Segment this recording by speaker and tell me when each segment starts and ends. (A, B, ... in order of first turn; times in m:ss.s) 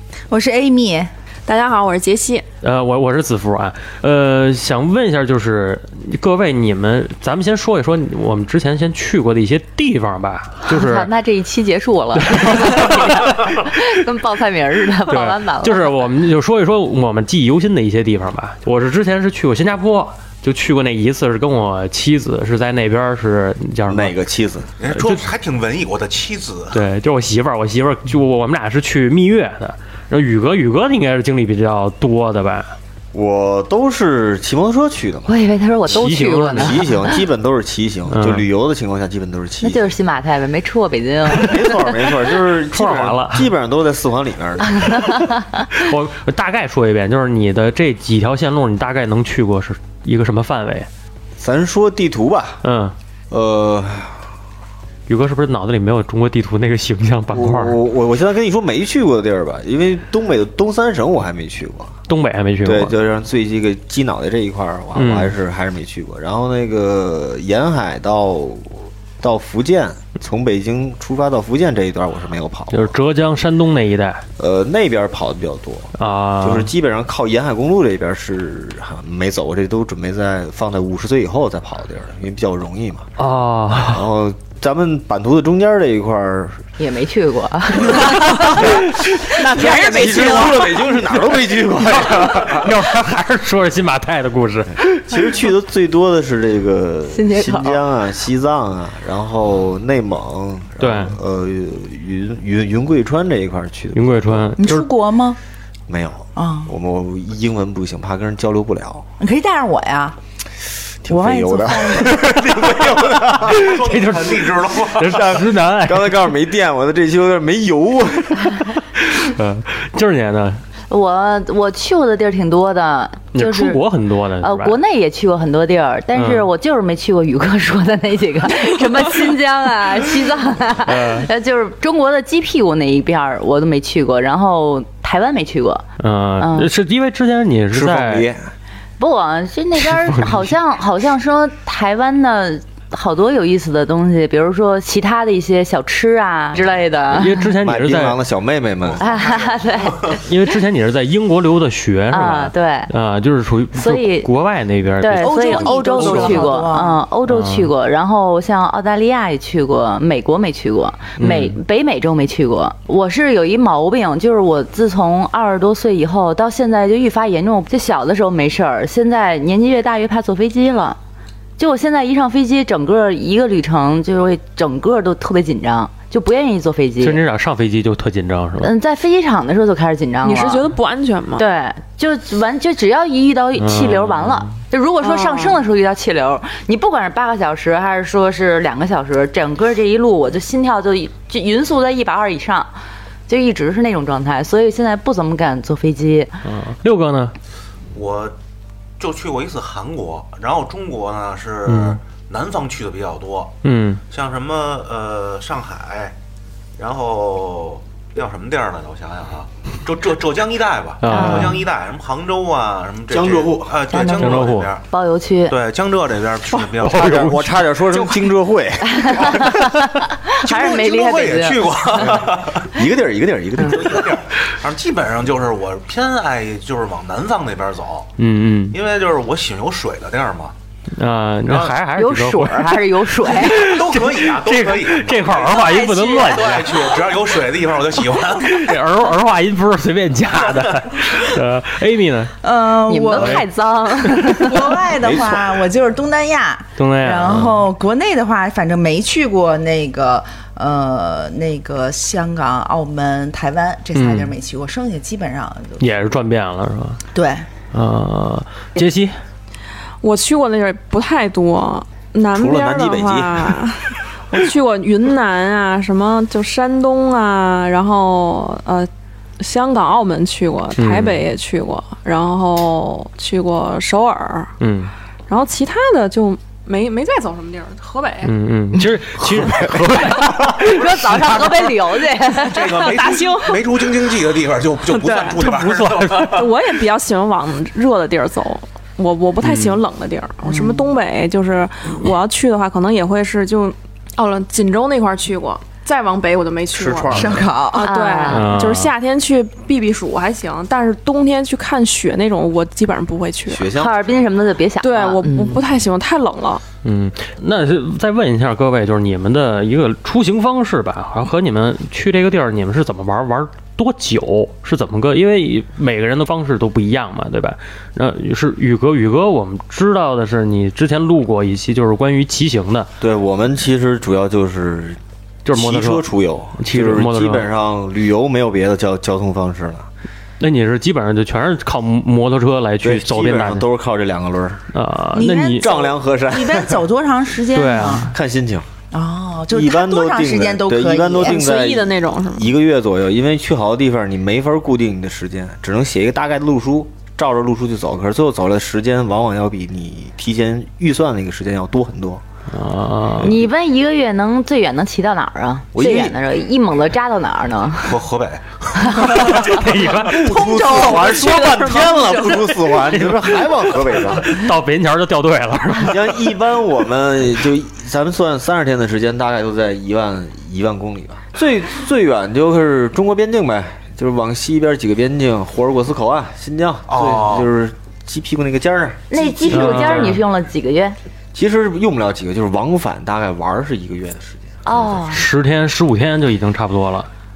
0:00.3-0:01.1 A
0:01.5-0:02.4 B
0:02.6-0:11.1 C
0:10.7-0:15.9 D
0:12.3-0:13.3 C
0:15.1-0:24.1 C
0:23.9-0:24.7 E
0:24.8-0:26.8 F
0:24.9-0:25.2 C
0:26.7-0:32.7 C
0:33.1-0:35.3 E
0:35.3-0:37.2 D
0:35.9-0:36.8 C
0:36.5-0:39.8 E
0:38.1-0:38.4 C
0:39.6-0:41.7 D
0:41.3-0:45.0 E
0:42.7-0:43.5 C
0:44.8-0:45.6 D
0:45.7-0:50.9 C
0:51.4-0:52.6 E
0:52.6-0:52.9 C
0:53.3-0:54.2 E
0:55.1-0:57.8 C
0:57.3-1:02.0 E
1:02.1-1:02.9 C
1:02.6-1:12.9 E
1:04.9-1:05.3 C
1:12.7-1:14.2 C
1:14.4-1:23.1 E
1:16.0-1:16.7 C
1:23.2-1:24.0 C
1:23.7-1:26.6 E
1:26.8-1:28.6 D
1:27.8-1:32.8 E
1:28.7-1:29.4 C
1:29.3-1:30.7 D
1:29.5-1:30.5 B
1:31.9-1:35.3 C
1:34.8-1:44.6 E
1:37.1-1:37.8 D
1:40.8-1:41.1 C
1:43.9-1:44.9 C
1:44.6-1:45.4 A
1:45.9-1:49.1 E
1:46.4-1:46.7 A
1:49.2-1:50.2 A
1:51.0-1:53.6 E
1:51.1-1:52.4 A
1:52.4-1:55.4 F
1:53.4-1:56.2 C
1:55.1-1:58.7 E
1:59.0-2:00.6 C
2:00.9-2:03.8 D
2:03.3-2:04.8 C
2:04.4-2:15.8 D
2:06.1-2:06.5 C
2:10.8-2:11.3 C
2:16.0-2:18.3 C
2:16.4-2:16.7 D
2:17.7-2:18.5 E
2:19.0-2:27.4 D
2:19.8-2:20.5 C
2:27.1-2:28.2 C
2:27.6-2:29.4 E
2:29.0-2:29.9 F
2:29.0-2:30.2 D
2:30.2-2:36.5 C
2:32.1-2:32.9 D
2:33.7-2:34.3 D
2:35.0-2:51.0 D
2:35.2-2:37.0 A
2:37.3-2:37.7 C
2:41.2-2:41.6 C
2:51.6-2:57.2 D
2:57.0-2:58.7 C
2:58.6-3:00.7 D
3:00.2-3:01.4 B
3:01.4-3:12.7 D
3:03.6-3:04.5 C
3:05.0-3:05.6 B
3:13.3-3:16.4 D
3:16.4-3:17.3 C
3:17.9-3:18.3 F
3:19.0-3:23.6 F
3:21.6-3:22.0 C
3:23.6-3:24.0 C
3:24.1-3:26.1 F
3:26.8-3:34.8 F
3:31.0-3:31.6 C
3:31.1-3:31.6 D
3:33.1-3:33.8 E
3:33.9-3:35.6 D
3:34.2-3:34.7 C
3:35.5-3:38.2 F
3:36.7-3:37.6 C
3:36.8-3:39.5 E
3:38.8-3:41.9 D
3:40.4-3:42.7 F
3:42.0-3:44.1 E
3:43.6-3:48.1 F
3:48.2-3:48.8 C
3:48.7-3:50.5 F
3:50.9-3:57.0 C
3:51.5-3:51.7 F
3:51.9-3:53.7 D
3:53.5-3:58.8 F
3:58.4-4:02.3 C
4:02.4-4:03.5 A
4:02.9-4:04.8 D
4:03.1-4:03.5 C
4:04.3-4:15.8 A
4:05.0-4:05.7 E
4:06.8-4:07.6 C
4:13.9-4:14.3 C
4:15.8-4:17.0 C
4:17.1-4:17.4 A
4:17.7-4:19.1 C
4:20.0-4:34.6 B
4:22.3-4:23.7 E
4:30.7-4:31.2 C
4:34.6-4:34.9 C
4:35.3-4:38.3 B
4:38.2-4:41.7 C
4:40.4-4:42.7 D
4:42.2-4:44.1 B
4:42.4-4:46.5 F
4:44.9-4:45.4 B
4:45.4-4:46.5 C
4:46.3-5:03.7 B
4:49.4-4:49.8 C
4:56.7-4:57.5 E
4:57.1-4:57.8 A
4:57.7-4:58.4 D
4:58.3-4:58.9 C
5:03.5-5:04.3 E
5:03.7-5:05.6 D
5:04.8-5:06.6 B
5:06.8-5:22.9 C
5:23.0-5:25.0 E
5:25.4-5:26.0 C
5:25.5-5:29.9 E
5:26.6-5:27.5 C
5:30.4-5:33.6 C
5:32.8-5:34.6 E
5:34.7-5:35.7 C
5:35.1-5:38.1 A
5:35.6-5:36.8 E
5:37.5-5:38.1 C
5:38.1-5:38.7 E
5:38.9-5:41.4 A
5:39.5-5:52.2 E
5:41.2-5:42.5 B
5:52.5-5:53.3 C
5:53.2-5:58.0 D
5:55.7-5:56.2 E
5:57.8-5:59.5 F
5:58.9-6:01.2 C
5:59.8-6:04.4 E
6:00.4-6:02.5 B
6:02.8-6:06.3 C
6:05.7-6:20.2 E
6:16.9-6:17.5 F
6:19.1-6:21.0 D
6:19.5-6:20.2 C
6:21.3-6:25.0 E
6:24.6-6:25.2 D
6:25.1-6:27.1 C